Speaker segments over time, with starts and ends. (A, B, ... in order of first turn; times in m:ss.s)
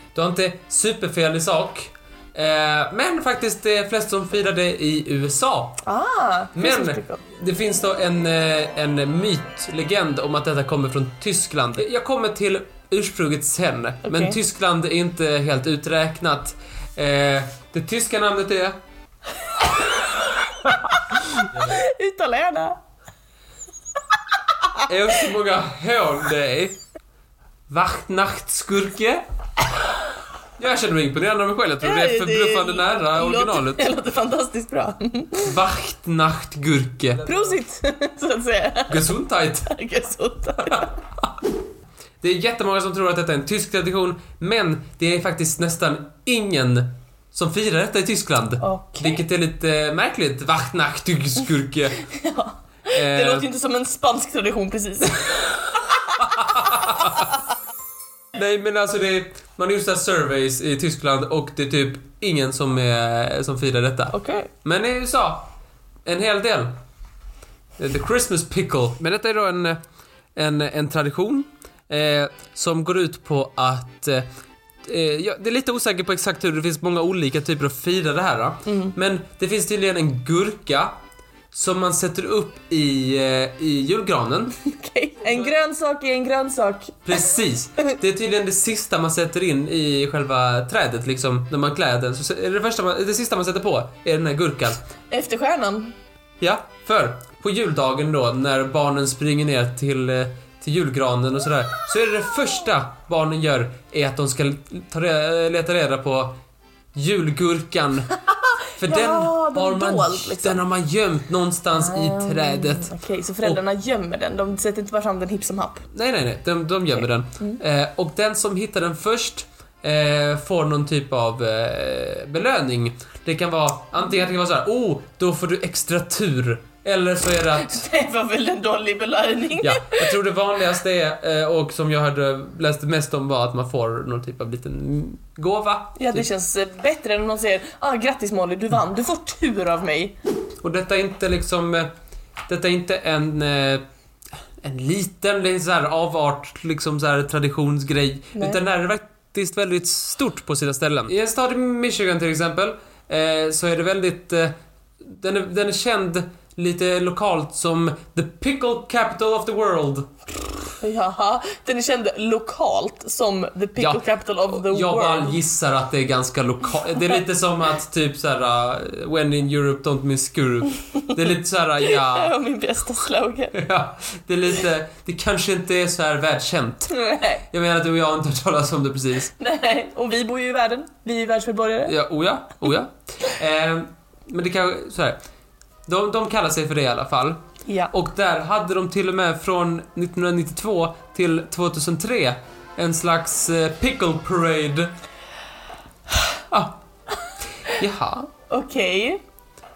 0:00.1-0:05.8 A
0:05.8-0:07.2 B
0:06.6-0:18.8 A
0:14.0-0:14.4 B
0:19.5-0:22.8 B
0:21.5-0:21.8 A
0:24.9-0:26.8 A
0:27.7-0:29.2 A
0:30.6-0:33.9 A
0:31.8-0:35.5 B
0:35.4-0:37.3 A
0:37.2-0:39.1 B
0:38.9-0:39.7 A
0:39.7-0:40.9 B
0:40.7-0:41.2 A
0:42.2-0:52.0 A
0:48.6-0:49.2 B
0:52.1-0:57.3 B
0:52.9-0:53.5 A
0:56.2-0:57.3 A
0:58.4-1:05.5 A
1:04.1-1:04.5 B
1:06.1-1:06.7 A
1:07.8-1:09.8 A
1:10.4-1:14.3 A
1:14.8-1:21.0 A
1:18.7-1:18.9 B
1:21.5-1:24.5 A
1:24.6-1:27.3 B
1:27.1-1:34.8 A
1:35.1-1:36.0 B
1:36.4-1:46.4 A
1:47.0-1:48.1 A
1:48.8-1:53.6 A
1:48.8-1:50.6 B
1:51.8-1:55.9 B
1:55.9-2:07.9 A
2:07.6-2:10.1 B
2:09.6-2:16.3 A
2:16.0-2:20.2 B
2:20.6-2:21.9 A
2:22.5-2:23.8 A
2:24.6-2:40.1 A
2:40.8-2:45.4 B
2:43.8-2:52.4 A
2:51.9-2:53.6 B
2:53.5-2:59.3 A
2:56.9-2:57.4 B
2:59.4-3:02.0 B
3:01.9-3:05.2 A
3:05.9-3:14.9 A
3:07.7-3:07.9 B
3:16.5-3:16.8 A
3:17.6-3:18.3 A
3:18.5-3:19.2 B